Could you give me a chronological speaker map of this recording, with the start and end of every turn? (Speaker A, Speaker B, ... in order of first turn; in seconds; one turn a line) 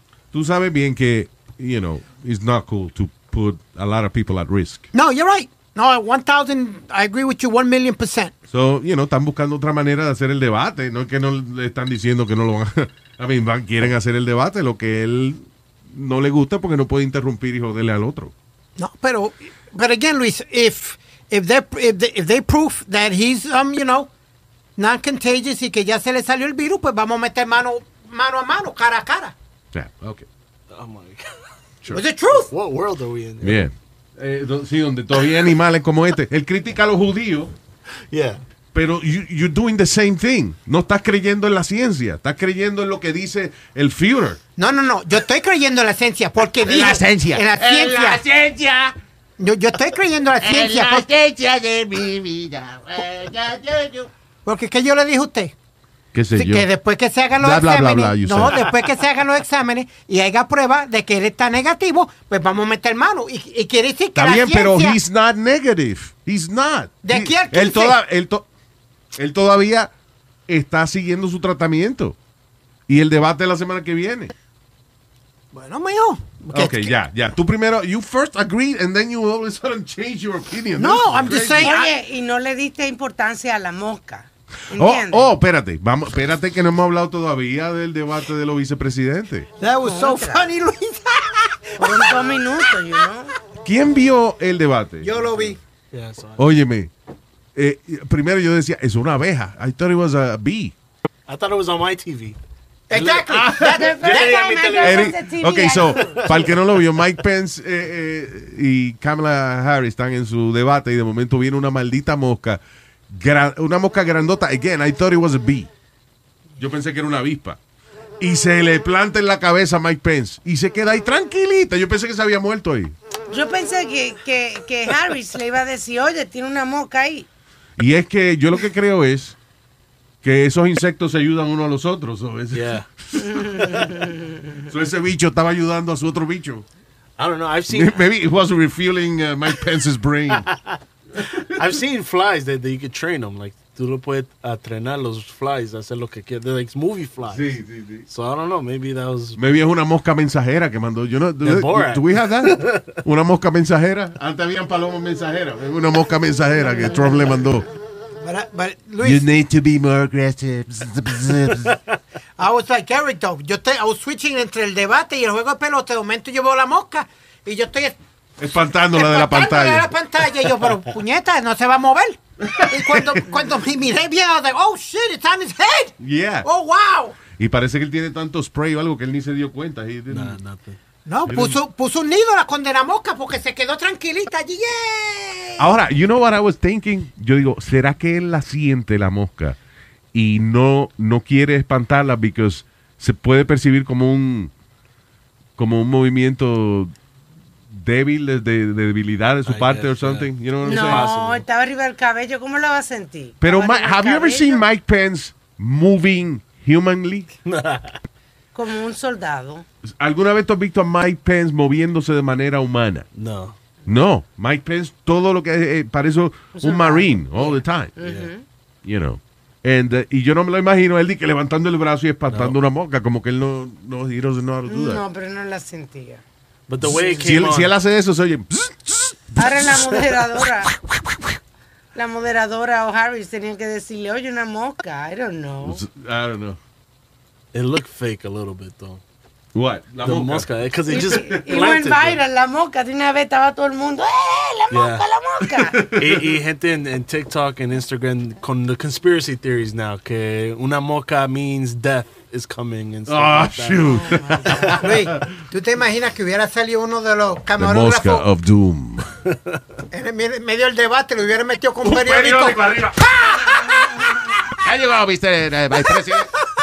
Speaker A: 0.3-4.8
Speaker B: 4.9-8.3
Speaker A: 8.5-18.3
Speaker B: 18.8-24.1
Speaker B: 24.8-29.3
Speaker A: 29.7-30.3
Speaker C: 30.7-31.4
Speaker B: 31.9-32.5
Speaker C: 32.3-33.6
Speaker A: 33.4-37.5
Speaker C: 38.1-38.4
Speaker A: 38.7-44.4
Speaker B: 44.6-48.2
Speaker A: 46.6-48.9
Speaker B: 49.4-51.1
Speaker A: 50.4-54.1
Speaker B: 54.4-55.5
Speaker A: 56.1-56.7
Speaker B: 56.3-65.0
Speaker A: 57.4-58.7
Speaker A: 64.1-68.5
Speaker B: 67.0-68.0
Speaker A: 69.2-69.9
Speaker A: 70.5-72.2
Speaker A: 72.9-74.3
Speaker B: 75.5-77.0
Speaker A: 76.5-81.7
Speaker B: 80.8-81.9
Speaker D: 81.5-85.3
Speaker A: 84.7-89.5
Speaker B: 89.6-92.4
Speaker D: 89.8-90.5
Speaker D: 91.8-93.3
Speaker A: 93.6-95.5
Speaker B: 95.0-95.6
Speaker C: 95.9-96.5
Speaker A: 96.4-96.9
Speaker A: 97.5-100.7
Speaker C: 101.3-102.4
Speaker B: 102.9-104.6
Speaker C: 102.9-105.2
Speaker D: 103.7-106.3
Speaker A: 104.8-115.7
Speaker C: 105.9-106.8
Speaker A: 116.6-117.6
Speaker A: 118.2-122.9
Speaker D: 123.3-127.3
Speaker A: 127.8-129.4
Speaker A: 130.2-133.4
Speaker C: 132.5-132.8
Speaker D: 133.2-134.4
Speaker A: 134.7-136.6
Speaker C: 137.2-138.0
Speaker A: 137.7-140.5
Speaker C: 140.4-149.4
Speaker A: 141.2-141.5
Speaker A: 147.3-148.1
Speaker A: 149.4-157.7
Speaker C: 151.4-153.0
Speaker B: 158.2-159.2
Speaker A: 159.0-161.8
Speaker B: 162.4-168.0
Speaker A: 168.4-169.9
Speaker B: 168.9-177.2
Speaker A: 172.4-173.3
Speaker A: 176.0-176.5
Speaker A: 177.4-180.4
Speaker C: 180.1-180.8
Speaker B: 181.1-185.7
Speaker A: 181.3-181.6
Speaker A: 185.6-189.6
Speaker A: 190.1-194.5
Speaker A: 195.6-196.9
Speaker A: 197.7-201.1
Speaker C: 199.4-201.4
Speaker D: 200.6-204.6
Speaker A: 203.4-207.3
Speaker C: 207.4-208.0
Speaker D: 208.5-209.6
Speaker A: 210.0-213.1
Speaker C: 213.1-213.6
Speaker A: 213.8-217.9
Speaker D: 216.6-218.4
Speaker C: 218.0-218.3
Speaker A: 218.8-225.0
Speaker C: 222.3-222.6
Speaker D: 224.7-226.2
Speaker C: 226.7-227.7
Speaker A: 226.8-229.5
Speaker D: 229.3-230.8
Speaker D: 231.9-235.8
Speaker A: 235.6-236.6
Speaker C: 237.5-239.0
Speaker A: 239.5-241.7
Speaker C: 240.0-242.2
Speaker D: 240.9-245.8
Speaker C: 244.7-245.0
Speaker A: 245.5-246.2
Speaker C: 245.9-254.0
Speaker A: 253.1-255.3
Speaker D: 253.8-254.9
Speaker B: 254.8-258.3
Speaker A: 257.6-259.1
Speaker C: 259.3-259.6
Speaker B: 259.9-262.9
Speaker A: 261.8-263.9
Speaker A: 264.5-266.3